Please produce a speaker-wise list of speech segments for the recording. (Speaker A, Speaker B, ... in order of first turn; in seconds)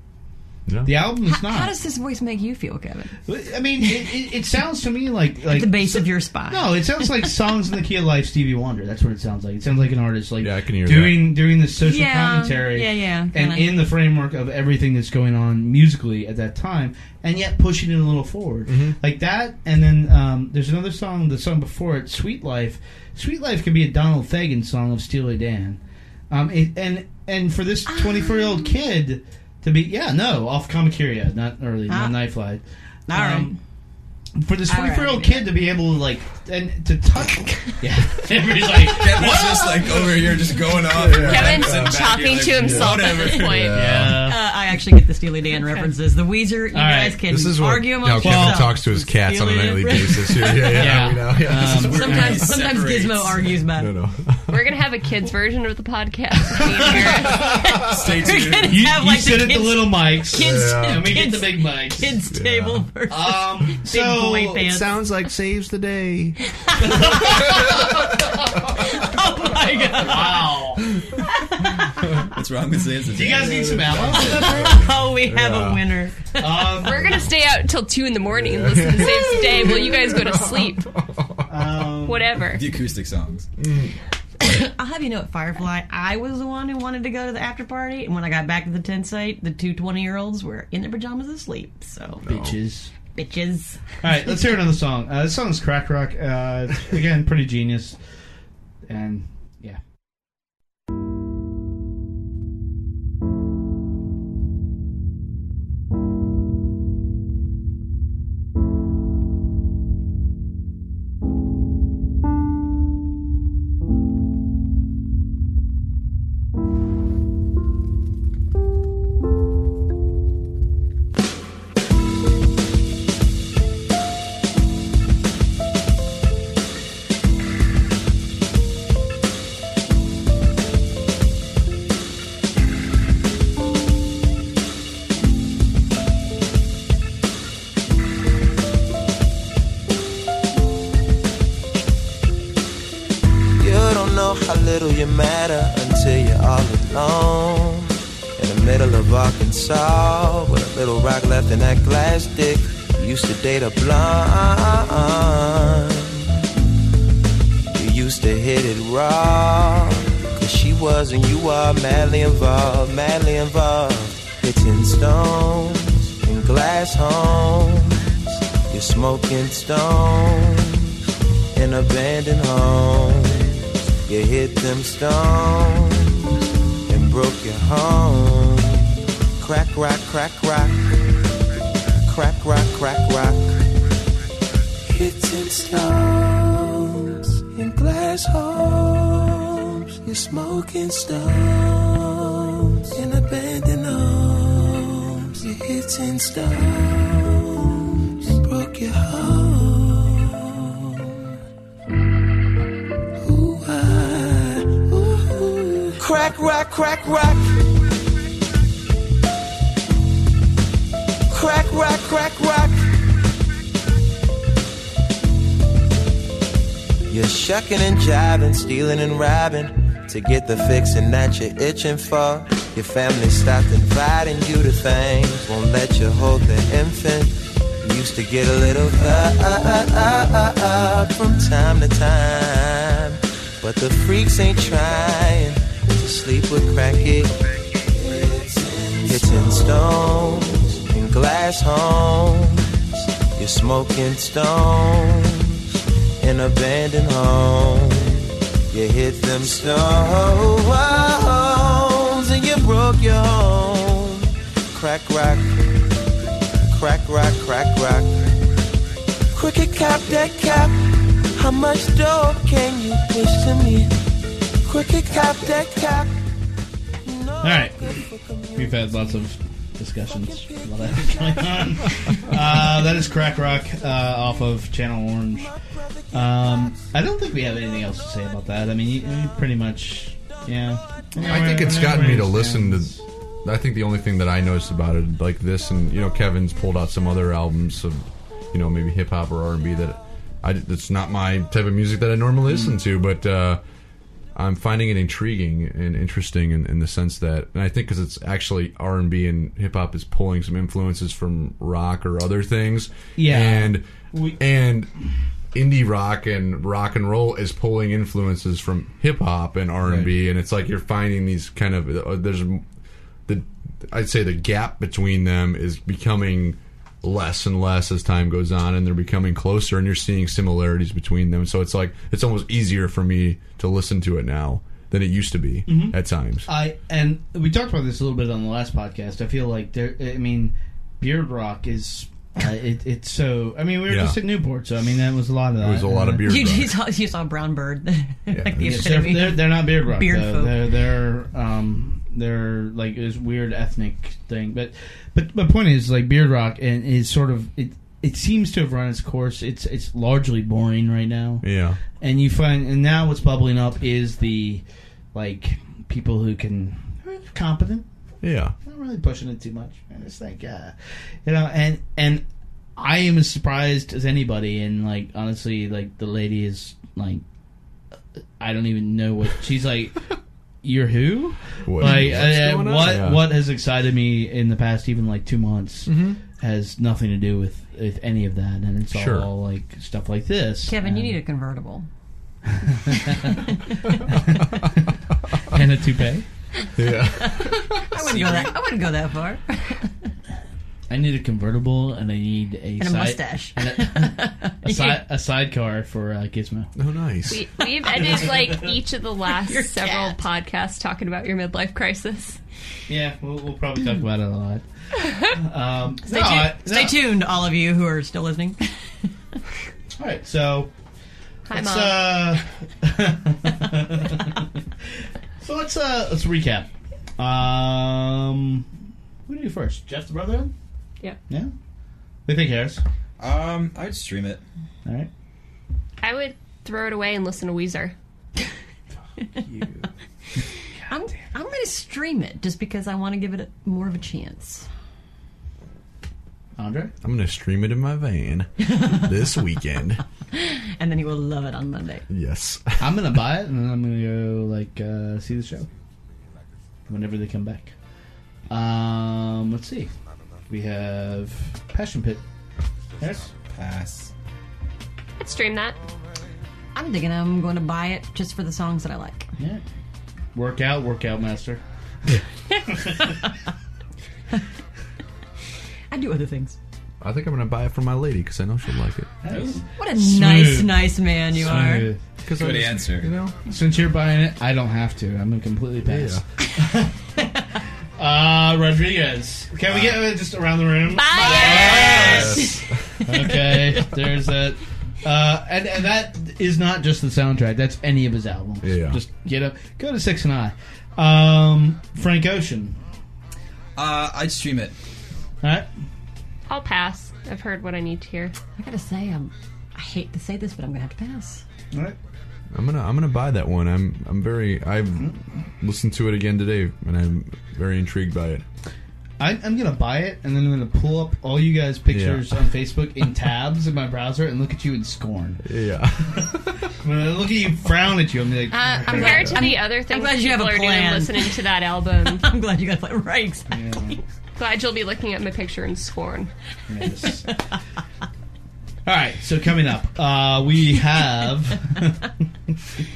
Speaker A: 0.7-0.9, 10.4-11.4, 18.7-19.0, 40.8-44.4, 47.3-52.0, 53.8-54.6, 56.9-57.8, 60.4-61.2, 62.3-62.9, 64.7-66.4, 67.3-67.8, 73.4-75.9, 77.0-77.2, 78.3-81.7, 83.6-84.0, 92.2-92.6, 281.2-293.6, 294.4-303.9, 304.4-304.9, 305.5-312.7, 313.3-326.5, 333.9-334.2, 335.6-336.8, 338.3-339.1, 351.4-351.8, 358.2-358.6, 371.6-373.3, 375.9-376.2, 378.9-379.3, 386.8-388.4, 396.8-397.5, 437.0-440.0, 442.1-443.1, 467.0-469.2, 471.4-473.4, 475.9-476.2, 481.4-482.6, 488.6-489.0, 502.5-508.4, 511.9-512.4, 515.4-516.7
Speaker B: 0.8-1.7, 3.3-33.6, 34.3-40.1, 43.7-44.4, 46.7-47.2, 48.2-48.7, 50.7-52.5, 58.6-62.2, 63.1-64.8, 66.8-67.6, 70.0-70.9, 73.1-74.8, 76.4-77.2, 81.5-82.3, 92.2-92.9, 94.0-98.0, 98.9-99.8, 265.2-265.5, 267.4-267.9, 268.6-275.5, 276.1-283.0, 303.2-304.4, 325.7-336.4, 338.6-357.9, 358.6-362.2, 362.8-367.2, 368.4-370.0, 370.6-381.1, 382.5-383.5, 384.1-384.9, 385.4-386.3, 390.9-396.7, 398.0-398.7, 402.9-404.6, 405.2-407.0, 410.0-410.7, 411.5-414.6, 415.4-418.7, 419.3-420.5, 422.3-422.8, 424.9-425.1, 429.4-429.9, 436.6-436.9, 442.8-445.7, 446.9-447.7, 448.5-449.9, 450.5-452.2, 453.0-453.3, 459.4-459.6, 460.3-461.6, 462.7-463.1, 469.2-472.0, 473.4-477.3, 478.0-492.8, 501.7-502.0, 505.0-505.2, 509.2-515.4, 516.1-519.4, 523.5-524.0, 526.7-527.3, 528.9-532.6
Speaker C: 1.2-3.2, 5.4-7.3, 11.8-13.9, 28.0-28.6, 31.9-32.3, 33.1-33.6, 34.7-35.5, 44.2-51.2, 51.7-53.9, 57.4-65.0, 66.7-68.0, 68.7-70.6, 71.2-72.2, 74.2-76.4, 84.4-92.2, 93.1-94.0, 336.3-340.7, 380.7-381.9, 383.1-383.9, 387.2-389.9, 392.8-395.0, 399.4-400.2, 406.1-408.8, 430.9-434.7, 438.6-439.1, 440.3-442.1, 456.8-459.3, 465.9-466.6, 469.8-471.9, 481.3-482.2, 498.6-501.4, 518.5-521.4, 522.0-523.7
Speaker D: 38.7-43.7, 51.5-53.5, 57.9-58.8, 72.2-74.5, 82.5-83.5, 423.2-424.4, 453.4-454.1, 472.4-473.2, 481.8-482.1, 493.8-494.8
Speaker E: 41.2-43.8, 54.5-57.6, 76.7-80.9, 82.0-82.6, 397.3-402.4, 411.5-412.3, 426.0-427.9, 455.2-455.8, 480.9-482.4, 496.5-498.4, 518.9-522.3, 524.4-526.3
Speaker F: 143.6-156.4, 157.7-171.0, 171.5-176.3, 176.9-180.9, 182.0-183.7, 184.9-201.2, 203.2-207.5, 211.3-212.8, 217.1-237.4, 237.9-245.7, 246.2-255.6, 256.7-258.3, 259.3-260.8, 261.3-263.9, 264.6-266.1, 267.1-268.8, 270.1-271.6